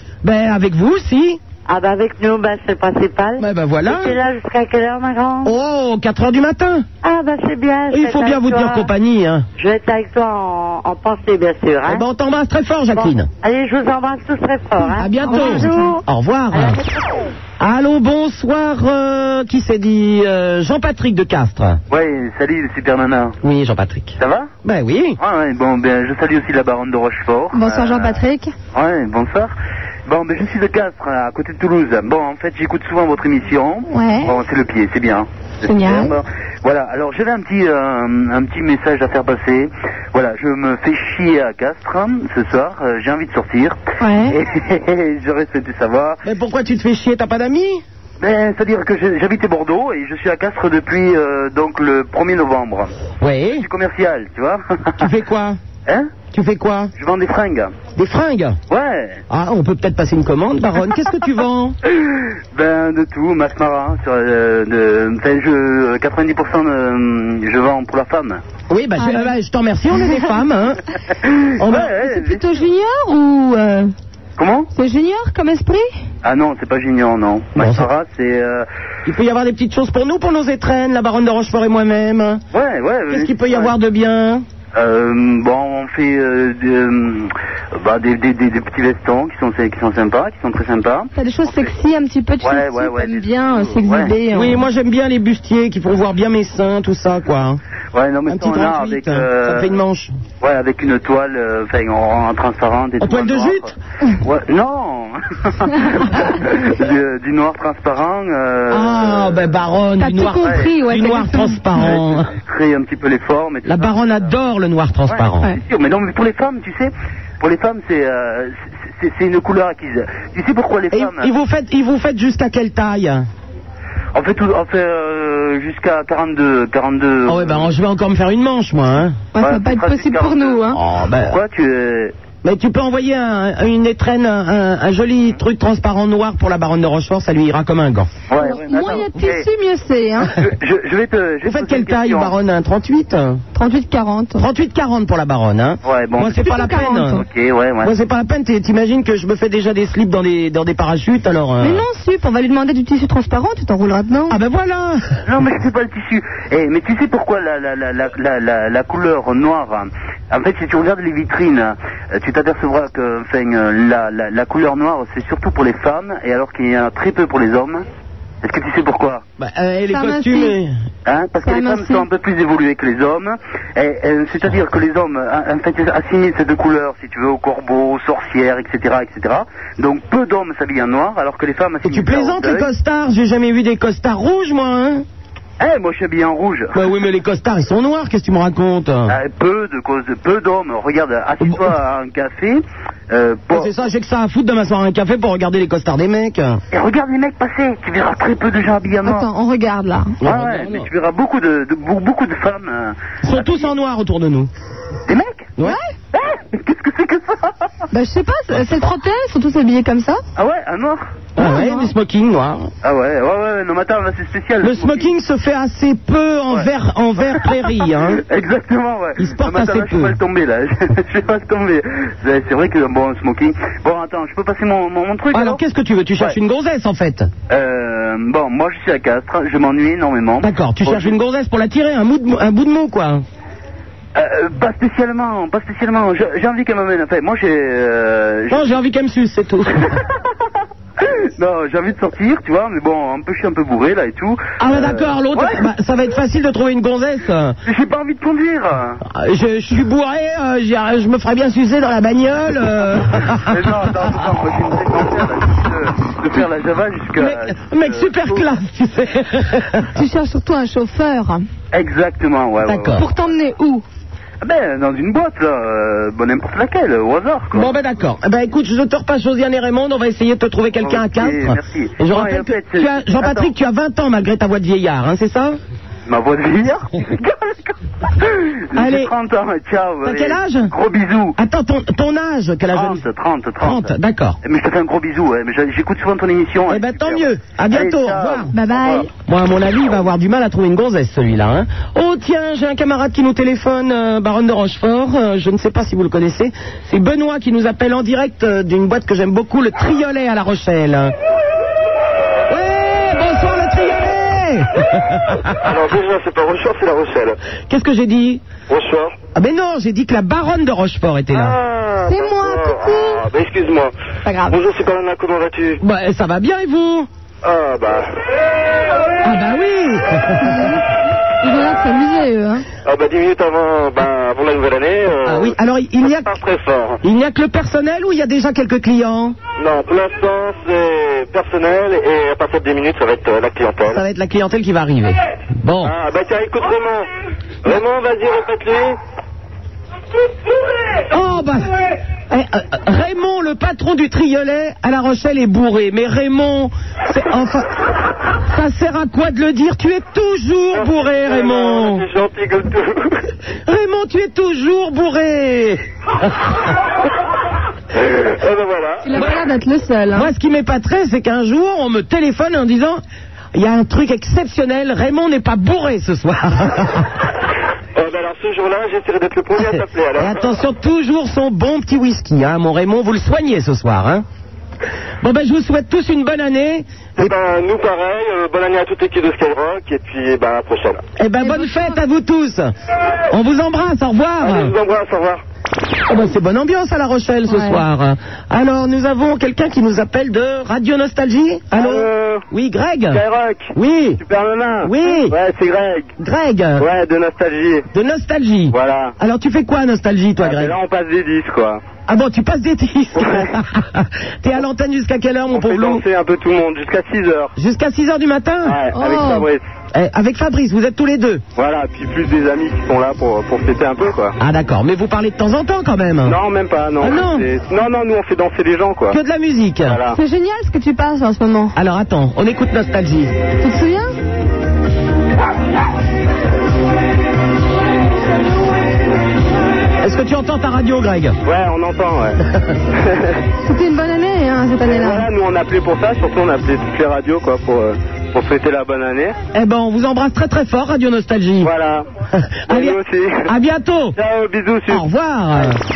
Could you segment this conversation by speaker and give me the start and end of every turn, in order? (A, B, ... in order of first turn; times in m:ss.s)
0:00.2-0:01.4 A
0:01.7-0:05.5 B
0:03.4-0:04.2 A
0:05.4-0:06.9 A
0:07.0-0:08.9 B
0:07.9-0:09.4 A
0:09.6-0:12.0 B
0:11.9-0:13.3 A
0:12.9-0:17.1 B
0:15.0-0:16.8 A
0:15.3-0:15.9 C
0:17.6-0:21.8 A
0:21.9-0:23.4 D
0:23.4-0:25.2 A
0:24.2-0:24.5 D
0:25.2-0:28.2 D
0:27.5-0:28.5 C
0:28.7-0:29.5 D
0:30.0-0:46.2 D
0:33.9-0:34.4 C
0:35.6-0:36.1 C
0:44.0-0:44.3 C
0:46.2-0:47.8 A
0:48.2-0:52.9 D
0:53.2-0:53.7 A
0:53.6-0:55.0 D
0:55.0-0:55.6 A
0:55.9-0:56.1 D
0:56.3-0:56.9 A
0:57.0-0:57.8 D
0:58.0-0:58.6 A
0:58.7-0:59.2 D
0:59.3-1:01.8 A
1:01.9-1:08.4 D
1:08.7-1:10.8 A
1:09.0-1:09.3 C
1:11.3-1:12.6 D
1:11.6-1:11.9 A
1:11.7-1:13.9 C
1:14.4-1:14.7 D
1:14.7-1:15.9 C
1:16.2-1:18.7 D
1:17.6-1:17.9 A
1:19.0-1:22.4 A
1:22.5-1:23.8 D
1:23.1-1:24.4 A
1:24.7-1:31.7 D
1:31.1-1:34.6 C
1:32.4-1:34.1 D
1:34.3-1:37.6 A
1:37.9-1:39.7 D
1:38.3-1:40.1 A
1:40.4-1:43.7 D
1:43.0-1:43.7 A
1:44.2-1:49.4 D
1:48.7-1:52.3 A
1:50.0-1:51.9 C
1:51.8-1:54.3 D
1:53.7-1:55.6 A
1:55.1-2:01.3 D
2:00.9-2:03.3 A
2:04.1-2:07.7 D
2:07.3-2:09.2 A
2:09.4-2:10.8 C
2:09.4-2:10.6 D
2:10.7-2:11.4 A
2:11.2-2:12.1 D
2:12.4-2:18.1 A
2:18.3-2:19.4 D
2:18.4-2:20.3 C
2:20.4-2:22.3 D
2:21.4-2:23.4 A
2:23.6-2:24.4 C
2:24.4-2:27.2 A
2:25.8-2:26.4 D
2:26.4-2:27.2 C
2:27.2-2:27.9 D
2:27.8-2:31.8 A
2:31.6-2:34.4 C
2:34.3-2:35.0 A
2:35.3-2:47.8 D
2:48.4-2:49.2 D
2:49.4-2:50.8 A
2:49.9-2:50.6 C
2:51.0-3:02.7 D
2:51.4-2:52.0 C
3:01.8-3:05.0 A
3:05.6-3:06.8 D
3:06.7-3:09.1 A
3:09.1-3:13.7 D
3:11.4-3:11.7 A
3:13.5-3:16.6 A
3:16.7-3:19.2 D
3:19.0-3:20.2 C
3:20.2-3:20.9 A
3:20.2-3:23.7 D
3:23.2-3:24.5 A
3:25.1-3:25.5 D
3:25.6-3:25.9 C
3:26.1-3:27.5 D
3:27.9-3:30.2 C
3:30.4-3:31.2 D
3:31.4-3:32.7 A
3:31.4-3:31.9 C
3:32.8-3:35.1 D
3:34.6-3:38.2 A
3:38.0-3:45.6 D
3:39.2-3:40.2 A
3:45.3-3:47.3 A
3:47.5-3:51.1 D
3:50.4-3:53.2 A
3:54.1-3:58.8 D
3:58.5-3:59.9 A
4:01.4-4:05.6 D
4:04.6-4:07.6 A
4:07.7-4:09.0 D
4:09.1-4:13.9 A
4:13.5-4:18.5 D
4:17.2-4:19.9 A
4:20.0-4:21.4 C
4:21.7-4:23.0 D
4:22.6-4:23.1 A
4:22.9-4:23.8 C
4:24.4-4:27.7 D
4:27.5-4:35.6 A
4:30.8-4:33.5 D
4:36.0-4:41.3 D
4:38.8-4:39.1 A
4:40.0-4:40.7 A
4:41.4-4:43.0 A
4:42.7-4:49.0 D
4:43.6-4:44.4 A
4:46.7-4:48.5 A
4:48.5-4:49.1 C
4:49.2-5:01.1 A
5:02.5-5:05.5 A
5:05.6-5:07.4 E
5:07.7-5:08.4 A
5:08.7-5:09.2 E
5:09.3-5:11.6 A
5:11.3-5:13.9 E
5:12.1-5:13.2 C
5:14.2-5:14.6 C
5:14.5-5:15.8 E
5:15.8-5:17.1 A
5:17.4-5:18.1 E
5:19.2-5:20.6 A
5:20.4-5:20.8 C
5:21.4-5:22.6 C
5:22.8-5:27.0 E
5:25.2-5:26.4 A
5:27.0-5:29.4 A
5:29.6-5:34.0 E
5:33.9-5:36.0 A
5:35.8-5:37.1 E
5:37.6-5:39.0 E
5:41.1-5:47.7 A
5:48.4-5:52.0 A
5:50.7-5:53.2 E
5:53.7-5:55.8 A
5:57.9-5:59.1 E
5:59.0-6:00.3 C
6:00.1-6:03.0 A
6:03.5-6:07.1 A
6:08.0-6:10.5 E
6:09.6-6:14.2 A
6:15.2-6:17.3 A
6:17.2-6:21.0 E
6:21.2-6:22.7 A
6:21.4-6:22.0 C
6:23.3-6:24.7 A
6:24.4-6:25.4 E
6:26.0-6:34.2 A
6:27.5-6:27.8 C
6:31.8-6:32.4 E
6:33.2-6:33.7 E
6:34.2-6:36.0 E
6:34.8-6:35.4 A
6:36.2-6:36.9 A
6:36.8-6:37.8 E
6:37.9-6:40.7 A
6:38.8-6:39.1 E
6:42.1-6:46.0 A
6:45.6-6:46.4 F
6:47.6-6:48.8 A
6:48.9-6:49.5 C
6:49.9-6:51.4 A
6:51.8-6:54.3 F
6:54.4-6:56.4 A
6:57.0-6:57.4 A
6:57.0-6:57.8 F
6:58.6-6:59.1 F
6:59.1-7:00.0 A
7:00.1-7:01.8 C
7:01.8-7:03.3 A
7:03.6-7:04.1 C
7:10.0-7:11.4 A
7:13.6-7:15.3 C
7:16.7-7:17.6 F
7:18.3-7:19.3 F
7:19.5-7:21.7 A
7:21.7-7:22.0 E
7:22.4-7:24.2 A
7:24.9-7:25.8 A